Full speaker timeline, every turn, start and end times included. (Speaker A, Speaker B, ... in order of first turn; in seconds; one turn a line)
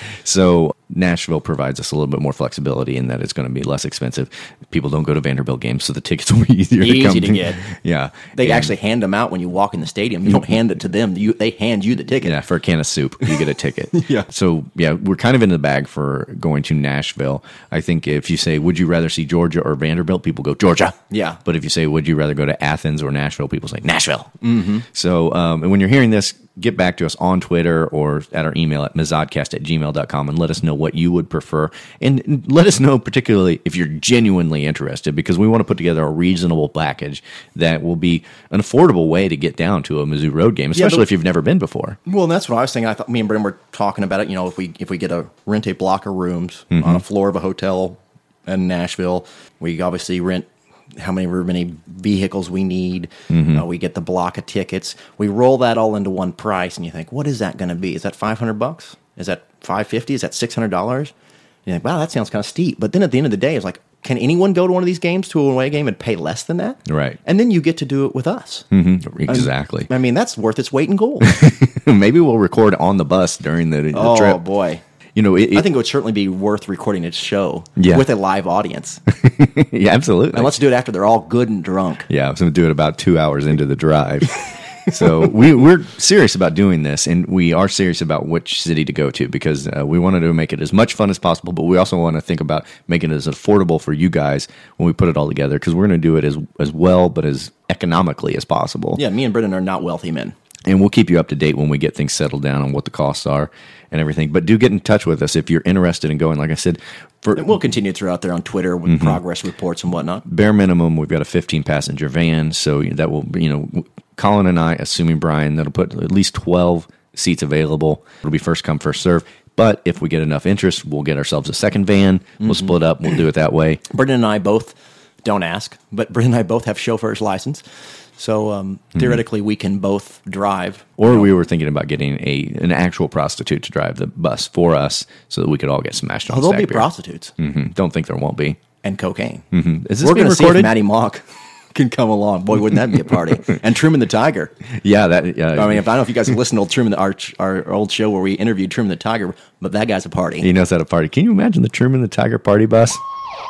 Speaker A: 0.2-8.7
Speaker B: 6.8-7.7
Speaker B: 8.3-12.4
Speaker A: 12.2-24.3
Speaker B: 13.9-14.3
Speaker B: 21.1-21.4
Speaker B: 24.4-24.9
Speaker A: 24.9-42.0
Speaker B: 40.7-41.1
Speaker B: 42.0-61.1
Speaker A: 46.7-47.0
Speaker A: 53.3-53.6
Speaker B: 61.6-68.7
Speaker A: 66.9-67.2
Speaker A: 68.7-69.9
Speaker B: 69.2-71.4
Speaker A: 71.2-74.4
Speaker B: 73.9-74.8
Speaker A: 75.1-75.7
Speaker B: 75.5-79.0
Speaker A: 77.8-78.1
Speaker A: 79.2-80.6
Speaker B: 80.3-82.1
Speaker A: 82.1-99.0
Speaker B: 99.0-100.3
Speaker A: 100.7-107.6
Speaker B: 107.3-110.2
Speaker A: 108.9-109.2
Speaker A: 110.2-123.8
Speaker B: 122.4-122.7
Speaker B: 123.9-127.6
Speaker B: 128.2-131.3
Speaker A: 131.0-138.6
Speaker B: 136.3-137.3
Speaker B: 138.8-139.4
Speaker A: 139.5-140.8
Speaker B: 140.0-144.5
Speaker A: 144.7-145.8
Speaker B: 145.5-150.5
Speaker A: 150.4-153.0